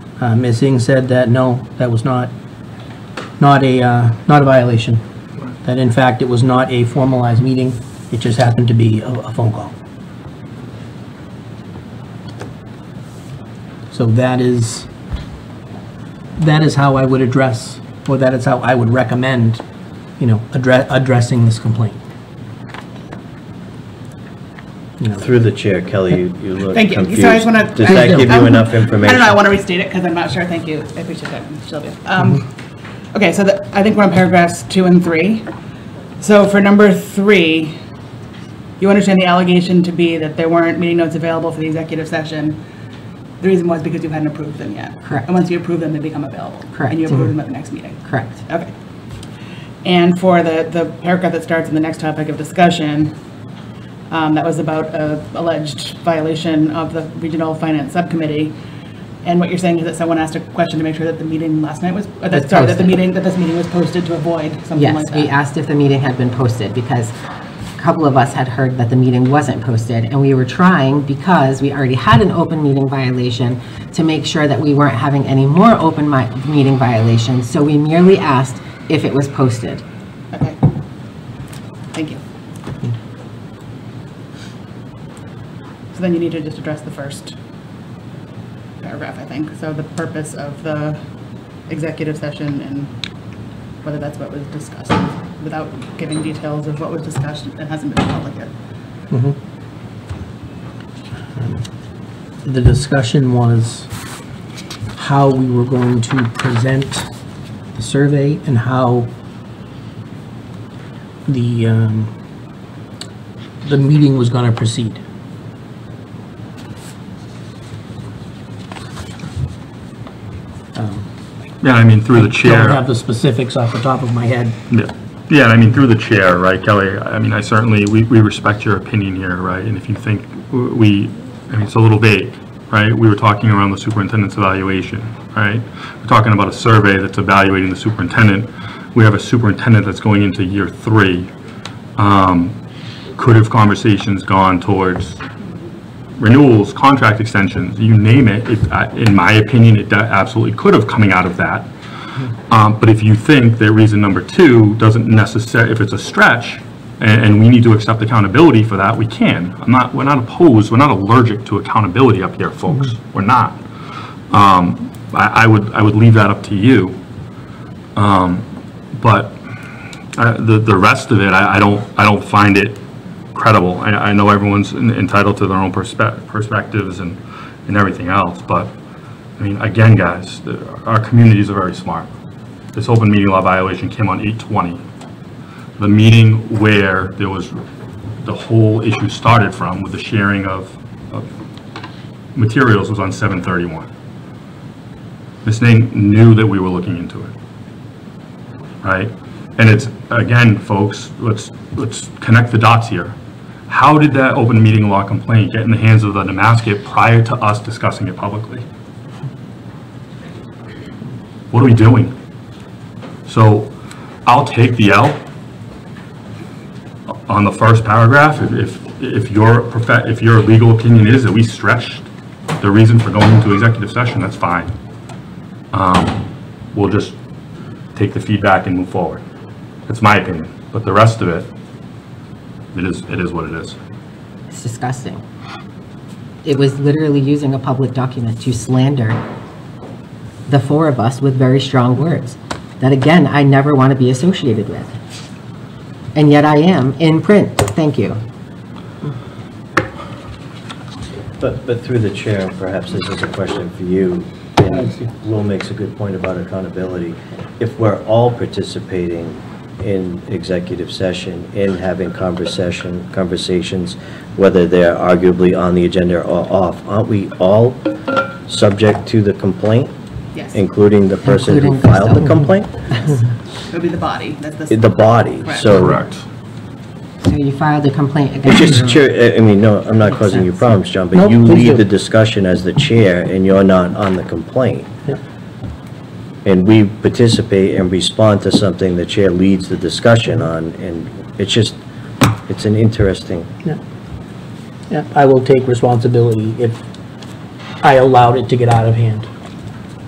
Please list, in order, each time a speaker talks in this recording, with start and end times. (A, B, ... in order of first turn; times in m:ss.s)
0:00.2-0:02.3 A
0:03.4-0:05.0 A
0:05.6-0:09.7 A
0:13.9-0:14.9 A
0:16.4-0:19.6 A
0:20.2-0:22.0 A
0:25.2-0:29.4 B
0:26.7-0:32.5 C
0:27.8-0:28.4 A
0:33.1-0:35.5 C
0:36.2-0:37.8 C
0:38.8-0:42.6 C
0:43.4-0:48.7 C
0:45.0-0:45.4 D
0:46.7-0:47.3 D
0:48.0-0:48.4 D
0:49.8-0:53.1 C
0:54.1-0:58.5 C
0:59.2-1:05.4 C
1:02.3-1:03.0 D
1:04.7-1:07.1 D
1:07.8-1:19.8 D
1:20.3-1:20.6 C
1:21.9-1:22.2 C
1:25.9-1:27.4 C
1:28.8-1:31.1 C
1:31.6-1:32.9 C
1:33.8-1:38.5 C
1:39.1-1:39.4 A
1:41.3-1:41.7 A
1:42.4-1:43.9 A
1:45.0-1:47.1 A
1:47.7-1:49.1 A
1:51.2-1:52.1 A
1:53.6-1:55.0 A
2:00.7-2:01.1 A
2:01.6-2:02.8 E
2:02.1-2:04.6 A
2:04.7-2:21.3 E
2:22.0-2:22.6 E
2:23.2-2:25.2 E
2:26.2-2:31.7 E
2:32.5-2:43.6 E
2:44.3-2:47.0 E
2:48.0-2:52.8 E
2:53.3-2:58.7 E
2:59.4-3:02.1 E
3:02.7-3:04.8 E
3:05.8-3:07.6 E
3:08.2-3:11.3 E
3:12.3-3:13.9 E
3:15.4-3:17.3 E
3:18.8-3:23.1 E
3:23.7-3:28.6 E
3:31.5-3:32.1 E
3:33.2-3:33.7 E
3:34.2-3:35.2 E
3:37.1-3:42.1 E
3:42.6-3:44.7 E
3:45.7-3:47.1 E
3:47.9-3:49.2 E
3:49.9-3:51.5 E
3:52.7-3:53.8 E
3:54.5-3:55.2 D
3:56.4-3:59.2 D
4:00.5-4:05.0 D
4:06.1-4:08.2 D
4:11.4-4:29.9 B
4:14.7-4:15.1 A
4:30.5-4:33.0 B
4:31.2-4:32.3 D
4:33.7-4:35.8 C
4:34.7-4:36.0 B
4:35.7-4:36.2 E
4:37.2-4:39.1 D
4:38.4-4:45.0 B
4:40.0-4:40.7 D
4:41.1-4:41.8 A
4:46.4-4:51.8 B
4:52.4-4:53.5 B
4:54.9-4:56.8 A
4:57.8-4:59.3 A